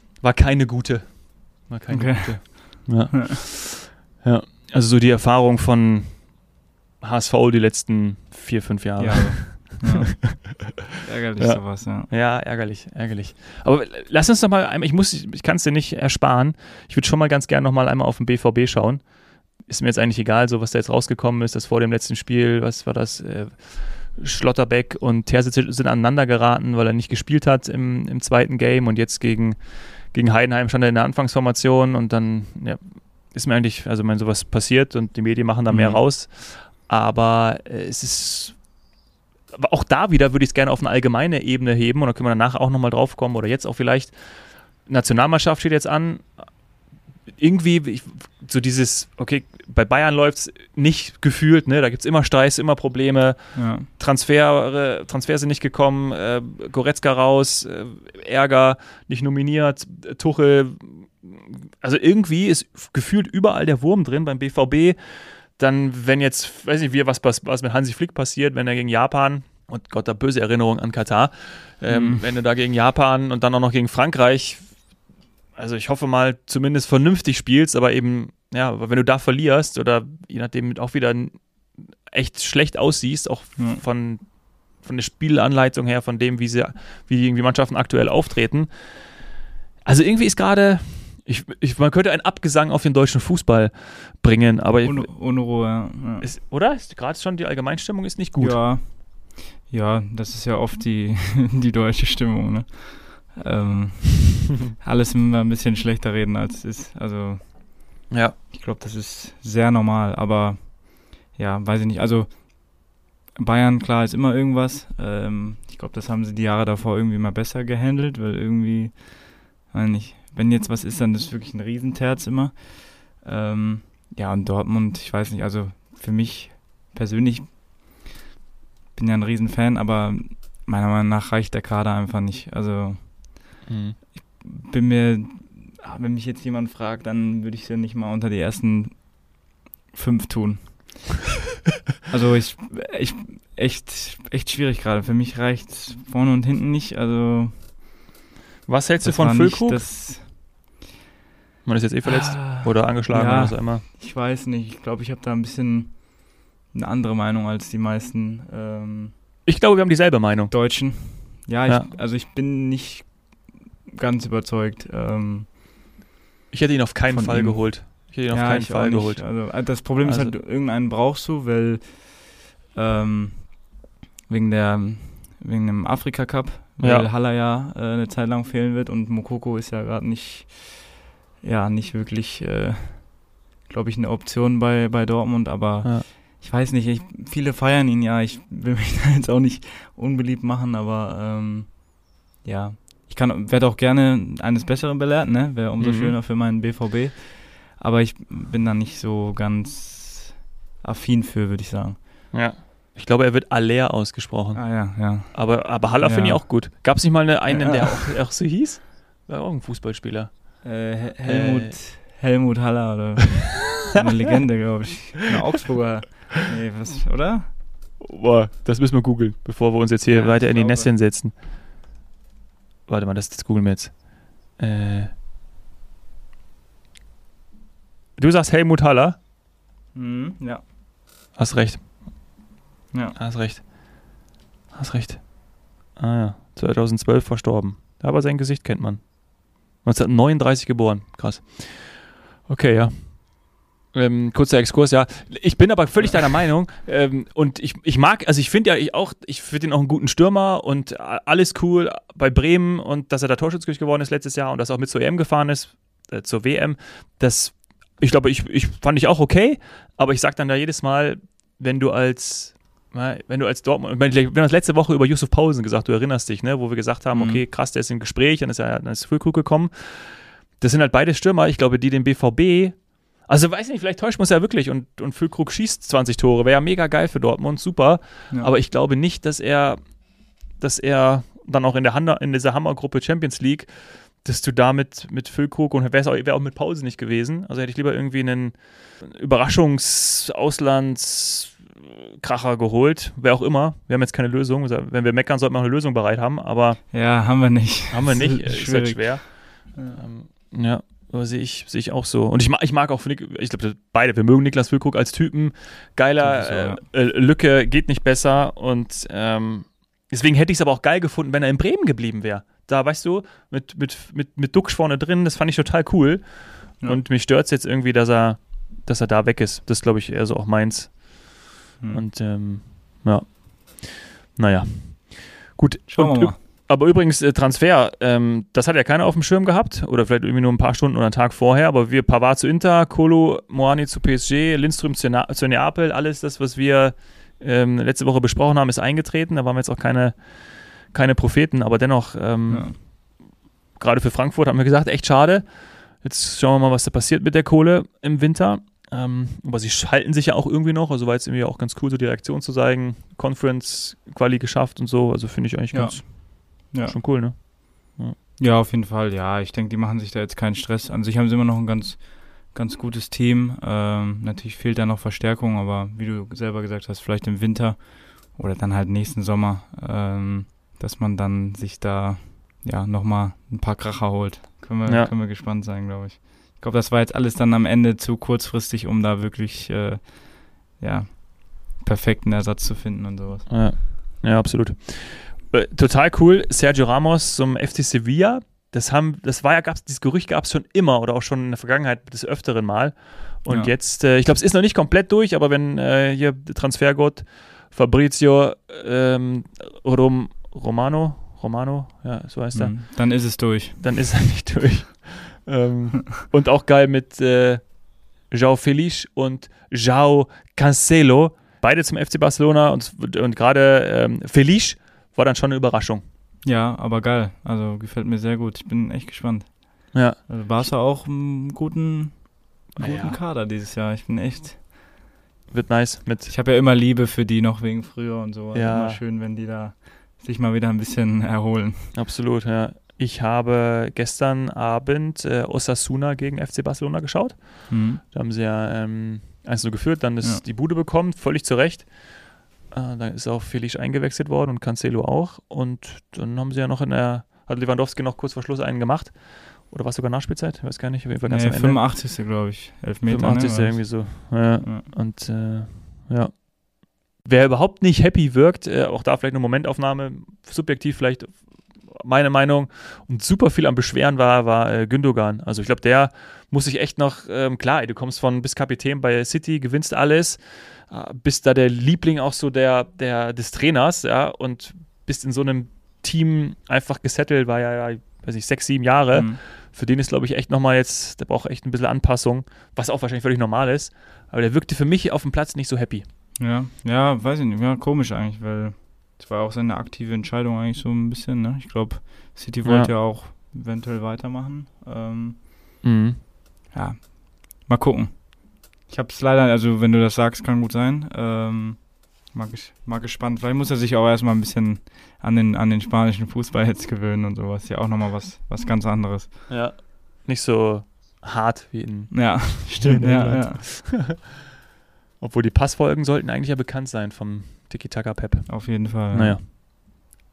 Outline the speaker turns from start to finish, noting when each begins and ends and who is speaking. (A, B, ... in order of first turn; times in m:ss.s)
0:00.2-0:06.4 A
0:01.9-0:03.4 B
0:07.0-0:10.4 A
0:09.0-0:12.1 B
0:11.4-0:38.6 A
0:35.7-0:36.0 B
0:39.5-0:46.5 A
0:47.3-1:14.8 A
0:53.5-0:53.9 B
1:11.9-1:12.2 B
1:15.6-1:29.3 A
1:23.6-1:23.8 B
1:29.8-1:35.3 A
1:34.8-1:36.3 B
1:36.2-1:38.6 A
1:38.4-1:47.8 B
1:48.1-1:48.4 A
1:48.5-2:08.1 B
2:09.0-2:13.6 B
2:13.7-2:14.0 A
2:14.2-2:21.1 B
2:22.1-2:27.7 B
2:28.7-2:29.9 A
2:29.0-2:30.3 B
2:31.6-2:33.8 A
2:32.0-2:39.1 B
2:39.5-2:41.0 A
2:40.5-2:45.5 B
2:46.5-2:50.4 A
2:47.1-2:53.7 B
2:54.3-3:22.0 B
2:56.8-2:57.1 A
3:15.8-3:16.2 A
3:22.3-3:31.8 A
3:24.6-3:26.7 B
3:27.5-3:28.2 B
3:30.6-3:37.5 B
3:38.0-3:41.4 A
3:40.1-3:41.0 B
3:42.9-3:45.1 A
3:48.2-3:49.2 A
3:49.9-3:50.6 B
3:51.4-3:51.9 A
3:52.9-3:53.2 B
3:53.2-3:54.0 A
3:54.7-4:56.9 A
4:27.1-4:27.4 B
4:56.9-5:00.0 B
4:57.9-5:43.1 A
5:06.2-5:06.8 B
5:25.9-5:26.4 B
5:42.5-5:42.8 B
5:43.8-5:58.2 A
5:55.7-5:57.0 B
5:58.4-6:23.5 B
6:14.9-6:15.1 A
6:23.5-6:56.0 A
6:33.5-6:33.7 B
6:42.5-6:43.8 B
6:56.4-7:04.6 B
6:59.9-7:00.2 A
7:02.8-7:03.2 A
7:05.5-7:06.3 A
7:06.3-7:12.0 B
7:08.5-7:09.0 A
7:11.9-7:32.0 A
7:17.7-7:18.0 B
7:31.3-7:34.9 B
7:33.0-8:06.0 A
7:59.1-7:59.4 B
8:06.4-8:15.5 B
8:12.6-8:12.9 A
8:15.8-8:16.2 A
8:16.7-8:29.5 B
8:29.5-8:34.3 A
8:32.1-8:33.9 B
8:35.2-8:39.4 A
8:38.5-8:39.4 B